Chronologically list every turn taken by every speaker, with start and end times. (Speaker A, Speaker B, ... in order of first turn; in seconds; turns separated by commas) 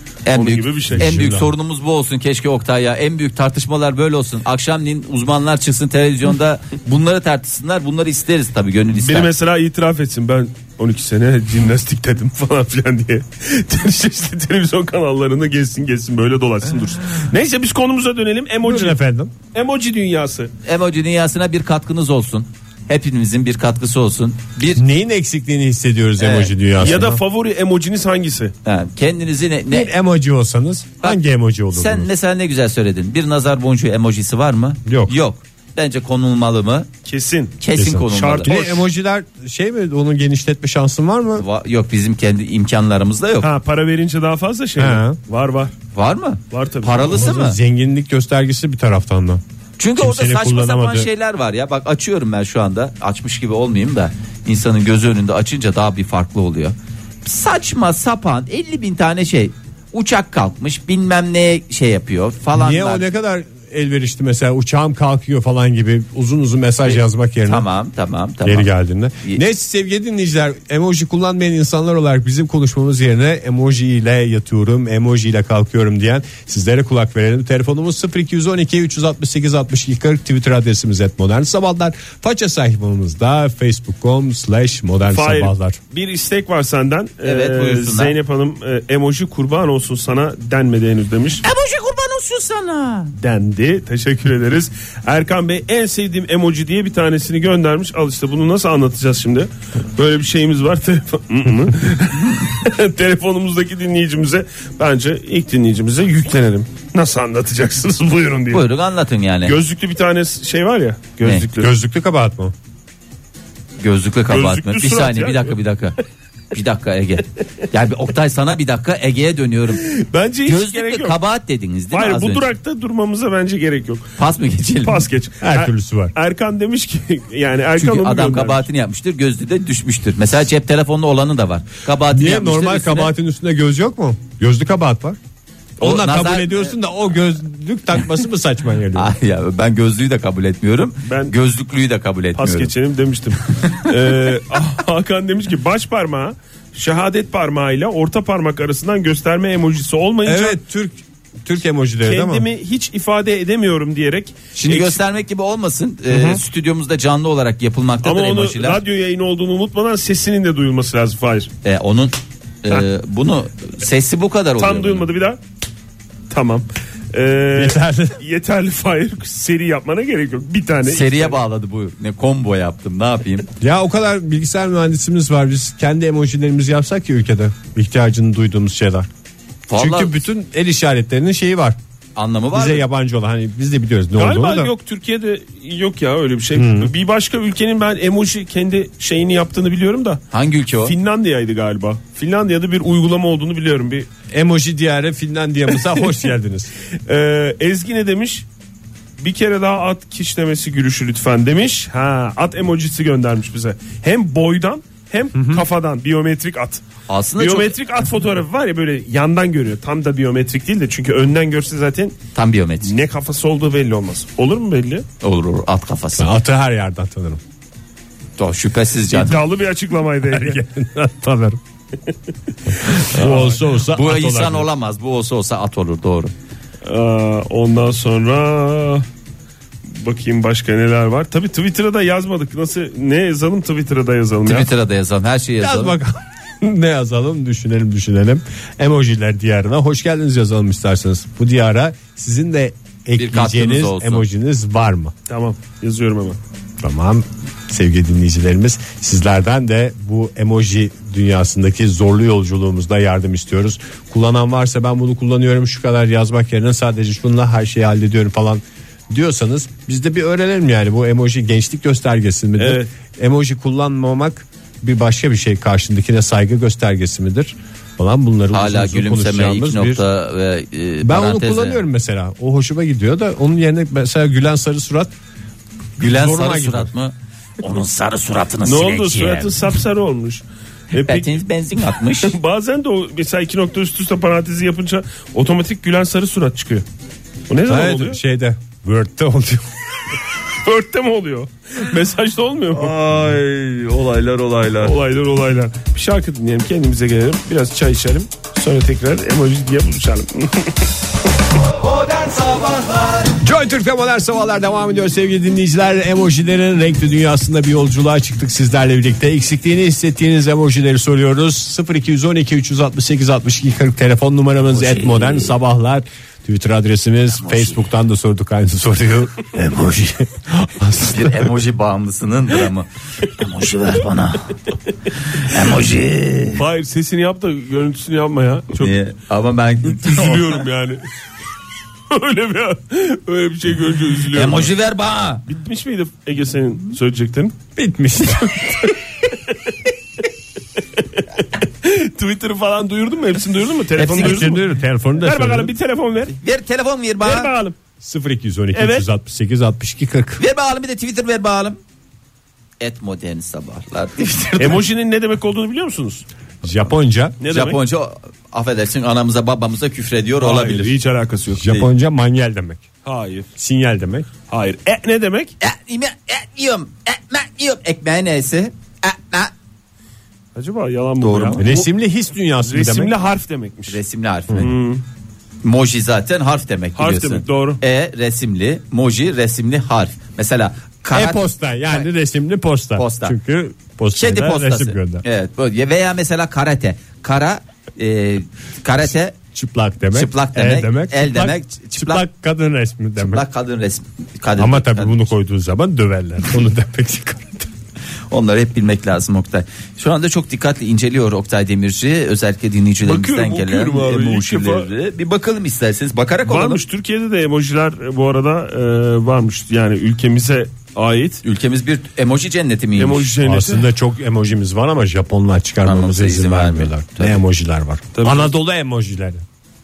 Speaker A: 0.2-9.3, Speaker B: 0.3-1.3, Speaker C: 0.9-1.5, Speaker B: 8.9-19.0, Speaker C: 18.6-19.3, Speaker B: 19.5-20.5, Speaker A: 20.6-24.8, Speaker C: 24.8-27.2, Speaker A: 26.2-26.5, Speaker B: 26.8-28.5, Speaker A: 28.6-29.9, Speaker C: 29.7-32.1, Speaker A: 31.7-36.9, Speaker C: 34.9-35.1, Speaker B: 37.0-37.6, Speaker A: 37.6-38.5, Speaker C: 37.8-41.5, Speaker B: 38.1-38.8, Speaker A: 41.4-43.5, Speaker B: 43.4-45.7, Speaker C: 44.8-45.2, Speaker A: 46.0-47.6, Speaker B: 46.5-47.2, Speaker C: 47.1-49.4, Speaker A: 49.8-63.0, Speaker C: 50.0-51.1, Speaker C: 62.5-67.7, Speaker A: 66.9-68.7, Speaker C: 68.5-85.8, Speaker B: 85.0-91.4, Speaker A: 87.2-88.2, Speaker A: 91.4-93.1, Speaker B: 93.2-108.7, Speaker A: 108.5-109.6, Speaker B: 109.5-111.7, Speaker C: 111.6-112.5, Speaker A: 113.8-116.0, Speaker B: 114.3-115.6, Speaker A: 116.5-119.8, Speaker B: 119.8-121.2, Speaker A: 120.5-122.5, Speaker B: 121.9-124.1, Speaker A: 124.2-125.0, Speaker B: 124.8-128.7, Speaker C: 125.4-126.1, Speaker A: 127.8-133.1, Speaker C: 132.1-135.2, Speaker A: 135.8-136.8, Speaker C: 135.8-139.1, Speaker A: 138.9-142.7, Speaker B: 141.1-141.3, Speaker B: 142.4-150.6, Speaker C: 150.2-152.5, Speaker B: 152.0-155.0, Speaker A: 154.6-158.8, Speaker C: 156.1-156.4, Speaker B: 158.0-161.5, Speaker A: 161.6-165.1, Speaker B: 164.6-165.4, Speaker B: 166.3-171.4, Speaker C: 167.5-168.2, Speaker A: 170.9-173.5, Speaker C: 173.6-179.1, Speaker A: 179.7-180.2, Speaker C: 179.8-181.8, Speaker A: 182.2-182.8, Speaker C: 182.5-184.7, Speaker B: 184.2-190.2, Speaker C: 186.6-186.9, Speaker A: 190.3-190.9, Speaker B: 190.8-194.1, Speaker C: 194.3-196.7, Speaker B: 197.1-198.5, Speaker B: 199.2-206.8, Speaker C: 205.3-205.6, Speaker A: 207.1-207.8, Speaker B: 207.4-212.2, Speaker A: 212.3-212.9, Speaker B: 212.8-215.1, Speaker A: 215.2-216.3, Speaker C: 216.2-217.4, Speaker A: 218.4-219.4, Speaker B: 219.1-220.6, Speaker C: 220.3-221.6, Speaker C: 222.7-224.7, Speaker B: 222.9-223.6, Speaker A: 223.9-226.3, Speaker B: 226.8-229.1, Speaker B: 229.9-234.7, Speaker A: 234.5-236.0, Speaker C: 235.6-245.1, Speaker A: 243.2-244.2, Speaker B: 245.3-246.4, Speaker C: 246.8-270.0, Speaker B: 262.6-262.9, Speaker A: 268.5-271.8, Speaker C: 271.0-275.1, Speaker A: 276.0-279.6, Speaker C: 276.0-276.9, Speaker B: 278.6-281.4, Speaker A: 281.0-282.4, Speaker B: 282.2-286.9, Speaker B: 287.5-288.2, Speaker C: 287.7-289.6, Speaker B: 290.4-293.0, Speaker A: 292.8-294.9, Speaker B: 294.8-300.9, Speaker A: 301.8-303.3, Speaker C: 303.4-321.5, Speaker A: 314.8-315.5, Speaker A: 317.4-317.8, Speaker A: 321.0-324.6, Speaker A: 325.3-326.6, Speaker B: 326.6-329.0, Speaker A: 328.8-330.6, Speaker B: 329.8-331.0, Speaker B: 332.1-334.7, Speaker A: 334.3-335.4, Speaker B: 335.5-337.6, Speaker C: 337.8-339.1, Speaker B: 339.5-339.8, Speaker B: 340.8-344.6, Speaker A: 344.0-344.6, Speaker C: 344.1-345.7, Speaker B: 345.2-346.4, Speaker A: 346.4-347.5, Speaker B: 347.2-347.8, Speaker C: 348.0-350.4, Speaker B: 348.7-349.1, Speaker A: 350.4-351.8, Speaker A: 352.8-354.9, Speaker B: 354.6-356.2, Speaker C: 356.6-357.4, Speaker B: 357.4-357.8, Speaker A: 357.5-360.9, Speaker B: 360.4-361.7, Speaker C: 361.6-362.9, Speaker B: 363.1-363.5, Speaker C: 363.6-364.3, Speaker B: 364.5-365.5, Speaker A: 365.6-369.5, Speaker B: 370.6-371.9, Speaker A: 371.2-371.7, Speaker C: 371.6-373.1, Speaker B: 372.6-374.0, Speaker A: 373.9-374.7, Speaker B: 374.6-375.0, Speaker A: 375.6-382.1, Speaker B: 377.0-377.8, Speaker C: 381.1-385.2, Speaker A: 383.0-383.4, Speaker A: 384.2-389.4, Speaker C: 389.5-393.4, Speaker A: 390.1-392.2, Speaker A: 393.2-395.2, Speaker C: 394.6-397.7, Speaker A: 398.3-406.8, Speaker B: 403.0-404.9, Speaker B: 406.4-411.4, Speaker A: 411.4-413.3, Speaker B: 413.0-413.9, Speaker C: 413.4-419.4, Speaker A: 415.8-417.4, Speaker B: 418.1-418.5